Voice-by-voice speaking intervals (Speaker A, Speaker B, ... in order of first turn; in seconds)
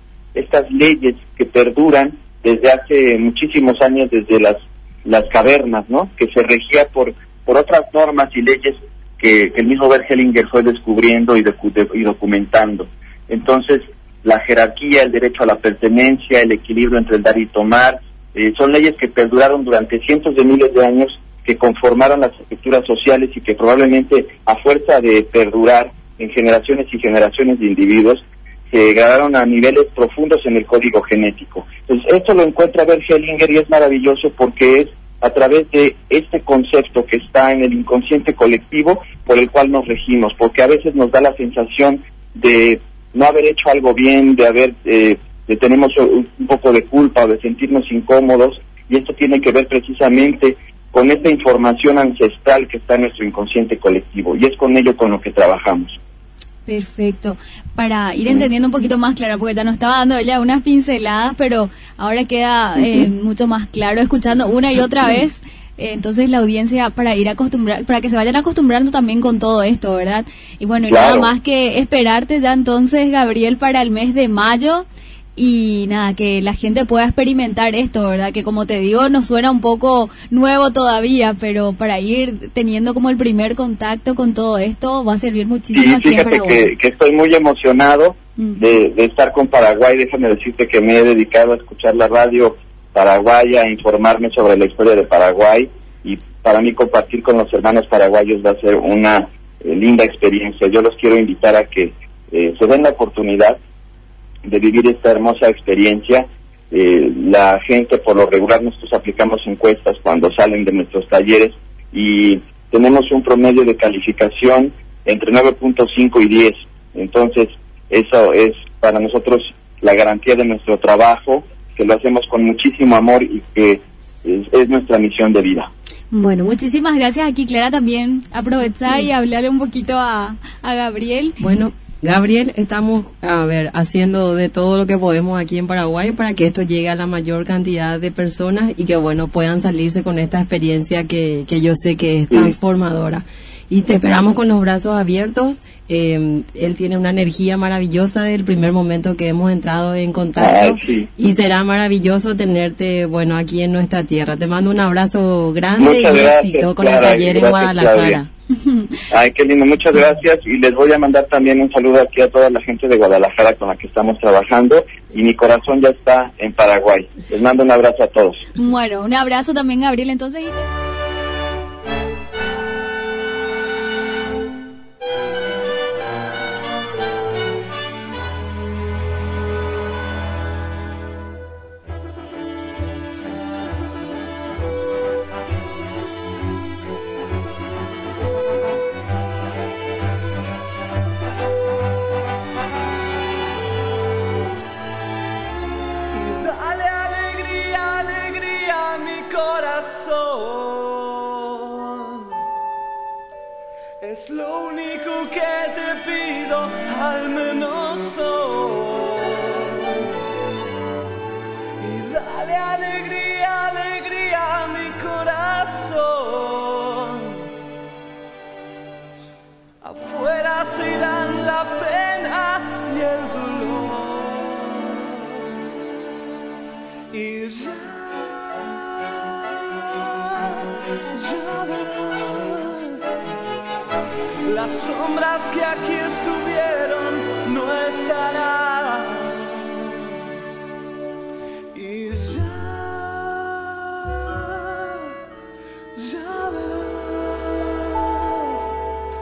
Speaker A: 0.3-56.0, 70.9-71.3, 85.7-103.6, 104.5-125.7, 150.4-151.1, 155.8-158.2, 159.1-168.5
Speaker B: 56.7-74.8, 75.4-86.7, 126.1-131.4, 158.5-159.0, 168.6-170.7
Speaker C: 131.4-158.3
Speaker D: 196.1-202.4, 204.0-210.1, 211.8-217.5, 219.8-225.6, 227.1-233.3, 234.4-240.2, 241.7-245.1, 246.0-248.9